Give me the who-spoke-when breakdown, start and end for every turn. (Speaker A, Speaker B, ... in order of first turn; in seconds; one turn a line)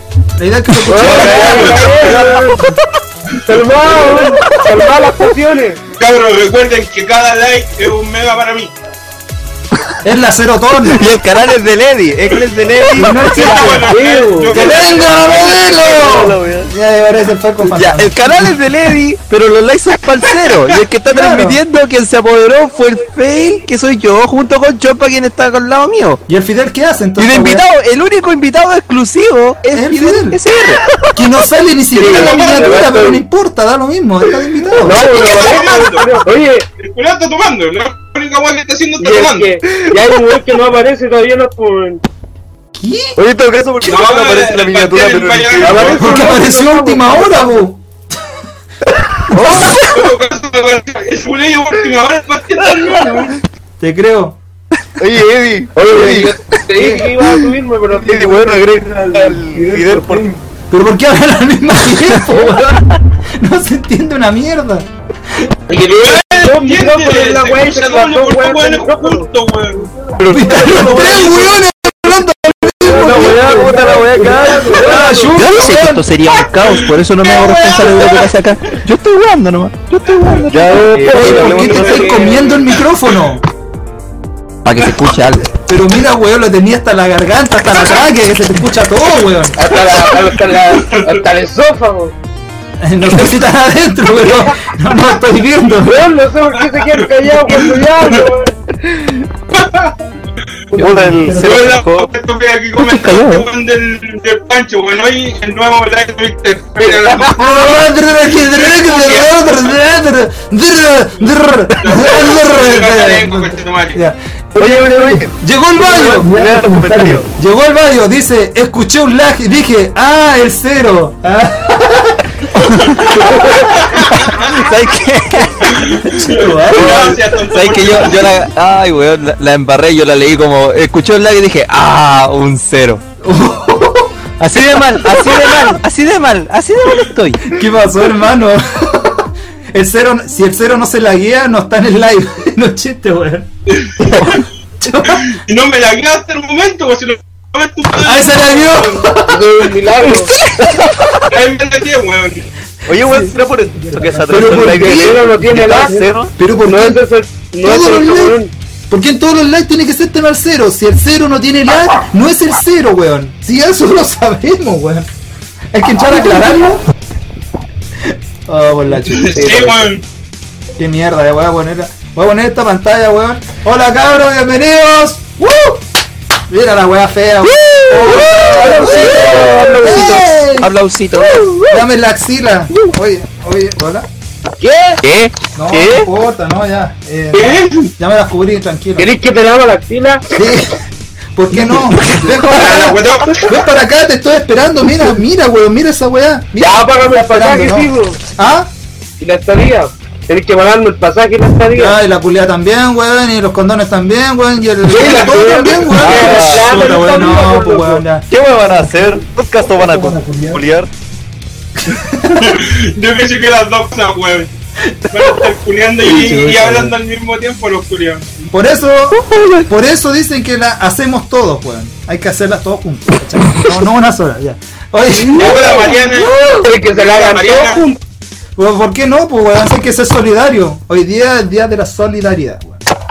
Speaker A: 0.4-2.3
Speaker B: 0.9-2.7
Speaker C: 1.1-2.3
Speaker D: 1.3-1.8
Speaker B: 3.5-5.8
Speaker C: 6.0-8.7
Speaker A: 10.0-11.0
Speaker E: 10.9-13.3
Speaker A: 12.9-13.9
Speaker C: 13.3-15.9
Speaker B: 13.9-14.6
Speaker A: 14.5-18.5
Speaker D: 15.8-16.7
Speaker E: 17.7-26.2
Speaker A: 21.1-21.6
Speaker A: 26.3-27.7
Speaker E: 27.2-30.8
Speaker A: 29.7-30.4
Speaker A: 31.1-35.0
Speaker B: 31.9-33.2
Speaker C: 32.2-32.7
Speaker B: 34.8-36.6
Speaker C: 35.1-36.2
Speaker C: 36.8-39.5
Speaker B: 39.0-42.0
Speaker A: 42.8-43.2
Speaker D: 43.2-46.2
Speaker C: 43.8-46.2
Speaker B: 45.6-47.6
Speaker A: 46.0-47.8
Speaker D: 49.3-49.8
Speaker A: 49.3-49.7
Speaker C: 49.8-53.3
Speaker A: 53.8-54.4
Speaker D: 55.0-57.1
Speaker B: 55.8-60.3
Speaker A: 56.8-57.1
Speaker D: 57.9-60.4
Speaker A: 60.7-64.9
Speaker D: 62.3-62.8
Speaker B: 65.7-69.3
Speaker C: 65.9-69.9
Speaker D: 70.2-71.5
Speaker A: 70.2-74.0
Speaker D: 72.8-75.3
Speaker B: 72.9-75.3
Speaker A: 74.7-76.2
Speaker E: 75.3-81.1
Speaker C: 76.7-78.8
Speaker D: 80.5-82.2
Speaker B: 80.7-82.7
Speaker A: 81.1-83.5
Speaker E: 84.7-85.5
Speaker A: 85.5-89.6
Speaker B: 89.6-92.1
Speaker C: 90.8-91.1
Speaker A: 92.8-96.1
Speaker B: 95.8-98.5
Speaker C: 96.6-98.3
Speaker C: 99.5-100.0
Speaker D: 100.8-102.1
Speaker C: 101.3-107.5
Speaker E: 102.8-103.5
Speaker B: 106.8-107.3
Speaker A: 107.4-116.6
Speaker C: 108.3-109.7
Speaker C: 111.7-114.0
Speaker D: 114.5-117.3
Speaker A: 117.3-123.7
Speaker C: 123.8-124.3
Speaker E: 124.1-125.7
Speaker C: 125.7-128.4
Speaker A: 126.0-127.2
Speaker E: 127.0-133.0
Speaker A: 133.2-134.2
Speaker E: 134.4-137.5
Speaker A: 135.3-135.7
Speaker A: 137.5-143.5
Speaker C: 143.7-144.4
Speaker A: 144.8-145.3
Speaker C: 145.1-149.1
Speaker A: 148.0-149.5
Speaker B: 149.3-150.3
Speaker E: 150.6-151.1
Speaker C: 151.3-152.4
Speaker D: 152.9-156.3
Speaker A: 152.9-155.2
Speaker B: 154.3-156.1
Speaker A: 156.4-157.0
Speaker B: 156.6-158.5
Speaker A: 157.6-158.4
Speaker A: 158.9-165.1
Speaker A: 165.7-166.8
Speaker A: 168.0-169.8
Speaker C: 169.1-170.0
Speaker A: 170.8-175.8
Speaker A: 176.5-180.7
Speaker E: 177.7-181.7
Speaker D: 177.9-180.2
Speaker A: 181.7-184.1
Speaker B: 184.6-184.9
Speaker E: 185.0-186.1
Speaker A: 185.6-189.1
Speaker C: 187.3-187.9
Speaker B: 189.0-190.2
Speaker A: 190.3-190.8
Speaker A: 191.4-198.7
Speaker C: 192.5-193.5
Speaker B: 196.6-198.2
Speaker B: 199.2-202.0
Speaker A: 201.7-208.3
Speaker B: 204.9-208.0
Speaker D: 205.9-206.8
Speaker D: 208.3-210.9
Speaker A: 209.8-210.6
Speaker A: 211.8-212.6
Speaker C: 212.3-214.5
Speaker C: 215.1-218.5
Speaker A: 216.1-216.9
Speaker E: 216.3-216.8
Speaker A: 218.5-225.7
Speaker E: 219.3-219.6
Speaker C: 225.3-226.4
Speaker B: 225.4-225.9
Speaker B: 226.6-228.0
Speaker C: 226.9-227.9
Speaker A: 228.6-232.8